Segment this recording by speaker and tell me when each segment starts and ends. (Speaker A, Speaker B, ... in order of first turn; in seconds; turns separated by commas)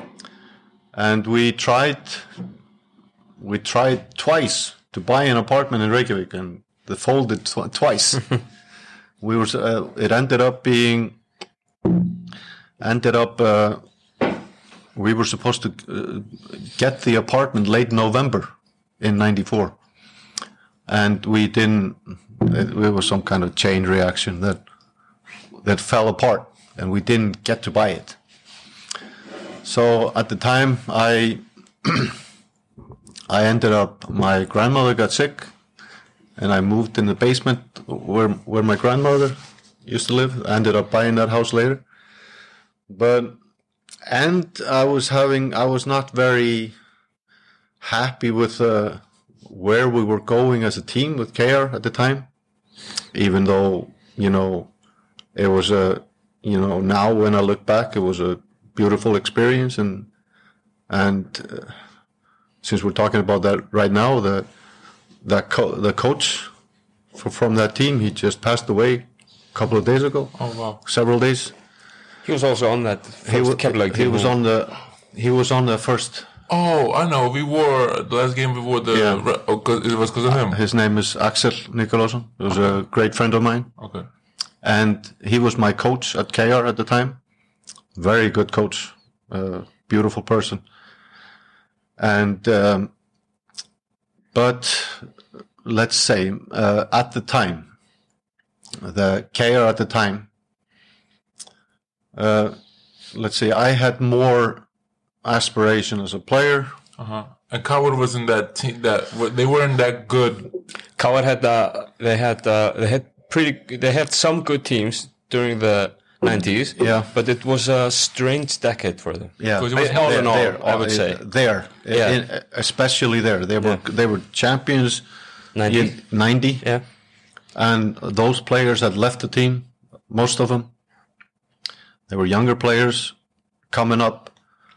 Speaker A: 0.9-2.3, Speaker A: 3.4-8.3, Speaker A: 9.2-11.2, Speaker A: 12.8-14.4, Speaker A: 14.9-19.8, Speaker A: 20.9-24.6, Speaker A: 25.6-28.2, Speaker A: 29.6-32.2, Speaker A: 33.3-35.5, Speaker A: 36.4-41.8, Speaker A: 42.9-43.4, Speaker A: 44.1-46.7, Speaker A: 47.8-52.3, Speaker A: 53.1-54.7, Speaker A: 55.3-60.1, Speaker A: 60.9-61.7, Speaker A: 62.6-64.5, Speaker A: 65.2-66.5, Speaker A: 67.1-71.5, Speaker B: 70.4-70.8, Speaker C: 72.2-74.3, Speaker A: 73.2-76.3, Speaker B: 76.5-80.6, Speaker A: 78.9-79.2, Speaker A: 80.3-83.7, Speaker B: 83.8-84.1, Speaker A: 84.6-87.2, Speaker A: 88.0-90.6, Speaker A: 92.0-92.9, Speaker A: 94.3-95.1, Speaker A: 95.6-97.7, Speaker A: 98.8-100.3, Speaker A: 102.1-102.6, Speaker A: 103.1-104.7, Speaker A: 105.2-106.8, Speaker B: 107.0-110.5, Speaker C: 111.0-121.2, Speaker A: 116.8-117.1, Speaker A: 119.4-125.0, Speaker B: 119.6-120.5, Speaker C: 121.9-122.2, Speaker C: 125.5-126.0, Speaker A: 125.7-126.7, Speaker A: 127.5-130.7, Speaker A: 132.1-133.2, Speaker A: 133.7-134.3